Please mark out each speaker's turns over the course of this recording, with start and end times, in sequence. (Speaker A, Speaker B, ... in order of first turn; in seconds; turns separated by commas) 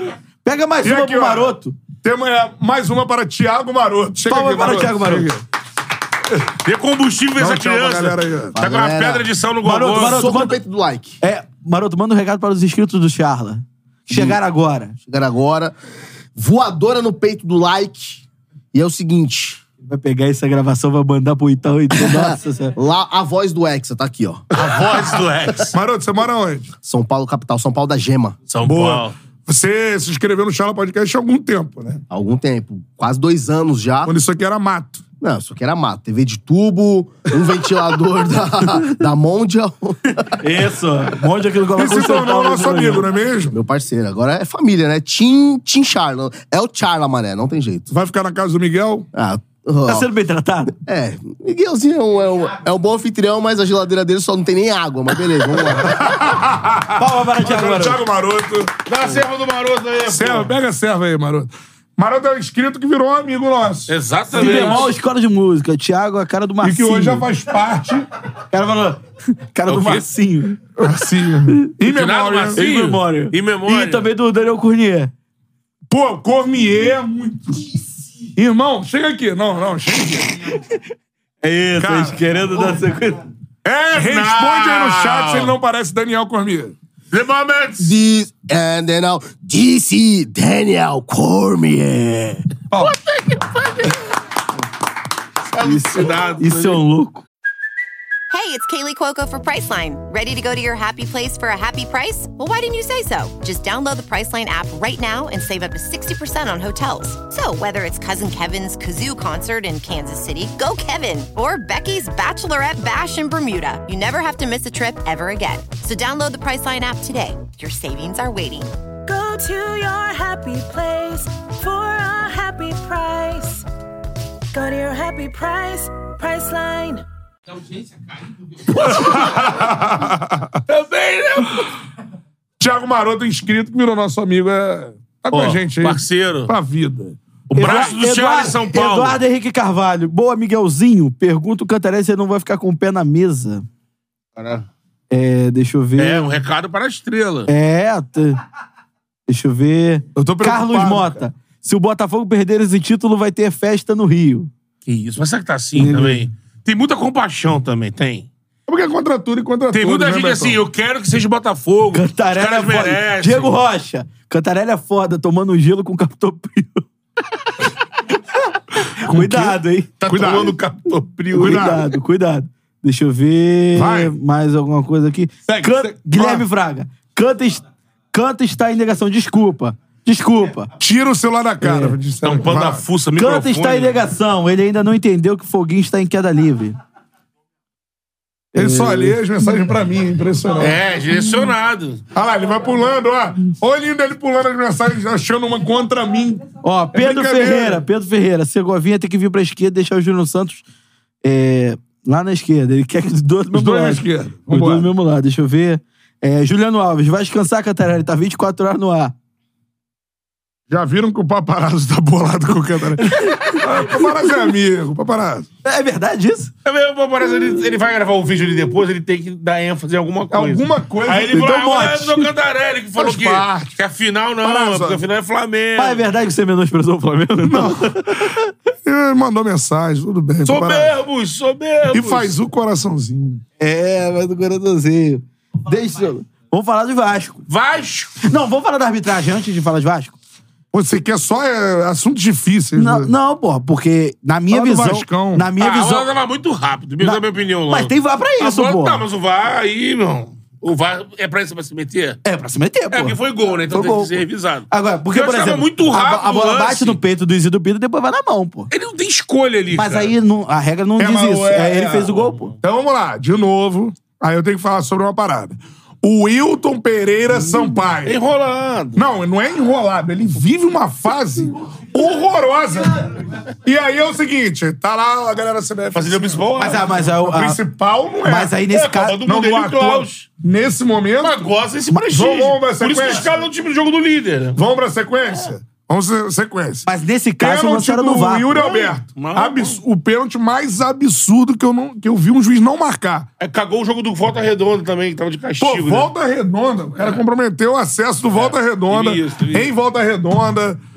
Speaker A: 0.4-1.7, Speaker B: 0.8-5.4, Speaker A: 4.3-5.3, Speaker C: 6.6-10.3, Speaker B: 7.4-8.5, Speaker D: 8.5-9.3, Speaker A: 9.6-10.6, Speaker D: 10.1-11.2, Speaker A: 11.2-14.9, Speaker D: 14.1-14.4, Speaker D: 15.0-15.7, Speaker D: 16.4-19.6, Speaker A: 19.8-22.7, Speaker D: 22.1-24.4, Speaker C: 24.5-25.7, Speaker B: 25.7-26.7, Speaker D: 26.8-28.4, Speaker C: 28.5-29.1, Speaker B: 28.6-32.0, Speaker D: 32.1-34.1, Speaker B: 34.0-35.0, Speaker D: 35.2-40.4, Speaker A: 40.4-43.1, Speaker B: 41.8-43.6, Speaker D: 43.5-47.9, Speaker B: 47.9-49.1, Speaker D: 49.1-50.1, Speaker A: 49.9-50.7, Speaker D: 50.8-56.0, Speaker B: 55.8-58.8, Speaker A: 57.0-58.0, Speaker C: 58.9-60.5, Speaker B: 60.1-64.9, Speaker C: 63.9-64.9, Speaker A: 64.3-67.3, Speaker B: 66.6-68.1, Speaker A: 68.5-70.6, Speaker C: 69.7-70.0, Speaker B: 70.8-72.6, Speaker C: 71.9-74.0, Speaker A: 72.5-75.1, Speaker B: 75.9-77.7, Speaker B: 78.3-80.5, Speaker A: 81.4-83.2, Speaker B: 81.8-82.2, Speaker B: 83.6-86.7, Speaker C: 83.9-85.5, Speaker C: 87.1-87.9, Speaker D: 87.8-92.4, Speaker C: 92.7-94.1, Speaker C: 95.5-96.8, Speaker A: 95.6-97.2, Speaker E: 98.3-118.7, Speaker F: 119.0-123.7, Speaker F: 124.5-127.0, Speaker C: 128.7-129.4, Speaker B: 128.8-130.6, Speaker C: 130.7-131.7, Speaker B: 132.6-137.2, Speaker C: 135.3-136.5, Speaker C: 137.5-139.2, Speaker A: 137.5-143.6, Speaker C: 144.4-144.7, Speaker A: 145.1-146.4, Speaker C: 146.0-147.5, Speaker A: 147.5-148.4, Speaker A: 149.3-154.5, Speaker B: 150.2-151.2, Speaker C: 154.8-158.3, Speaker A: 155.8-156.2, Speaker B: 158.7-160.6, Speaker C: 159.7-163.6, Speaker A: 161.9-166.8, Speaker A: 169.0-169.9, Speaker B: 169.0-170.6, Speaker C: 170.0-171.8, Speaker A: 171.3-180.7, Speaker B: 171.3-171.9, Speaker B: 173.7-174.1, Speaker B: 175.4-176.4, Speaker B: 180.8-182.8, Speaker A: 181.6-182.0, Speaker C: 182.2-183.9, Speaker A: 183.2-186.8, Speaker A: 188.5-189.2, Speaker B: 188.6-190.8, Speaker C: 190.6-192.0, Speaker B: 192.1-197.8, Speaker A: 196.6-200.6, Speaker A: 201.2-209.1, Speaker B: 203.5-204.9, Speaker B: 210.7-215.5, Speaker A: 213.0-214.1, Speaker A: 215.6-216.5, Speaker C: 216.6-226.0, Speaker B: 220.3-221.6, Speaker A: 221.3-222.3, Speaker B: 223.0-223.8, Speaker B: 224.4-225.0, Speaker A: 225.8-228.5, Speaker B: 227.5-227.9, Speaker B: 228.8-231.0, Speaker C: 230.4-232.3, Speaker B: 231.9-233.4, Speaker A: 233.6-237.4, Speaker C: 237.5-238.2, Speaker A: 238.2-240.2, Speaker B: 240.7-243.1, Speaker A: 242.8-246.1, Speaker B: 244.5-245.5, Speaker C: 245.6-252.2, Speaker A: 247.0-249.0, Speaker A: 252.2-253.2, Speaker C: 252.9-257.0, Speaker A: 253.7-258.7, Speaker C: 258.7-260.1, Speaker A: 259.7-262.5, Speaker B: 261.0-268.2, Speaker C: 268.0-269.1, Speaker B: 268.9-278.6, Speaker C: 275.9-276.9, Speaker A: 276.6-277.6, Speaker A: 278.2-279.2, Speaker C: 278.7-280.3, Speaker B: 279.2-281.4, Speaker C: 281.2-284.6, Speaker B: 282.1-283.3, Speaker B: 284.5-286.9, Speaker A: 286.9-288.5, Speaker B: 287.4-293.3, Speaker C: 288.5-289.8, Speaker C: 293.4-296.1, Speaker B: 295.6-300.8, Speaker C: 298.3-299.7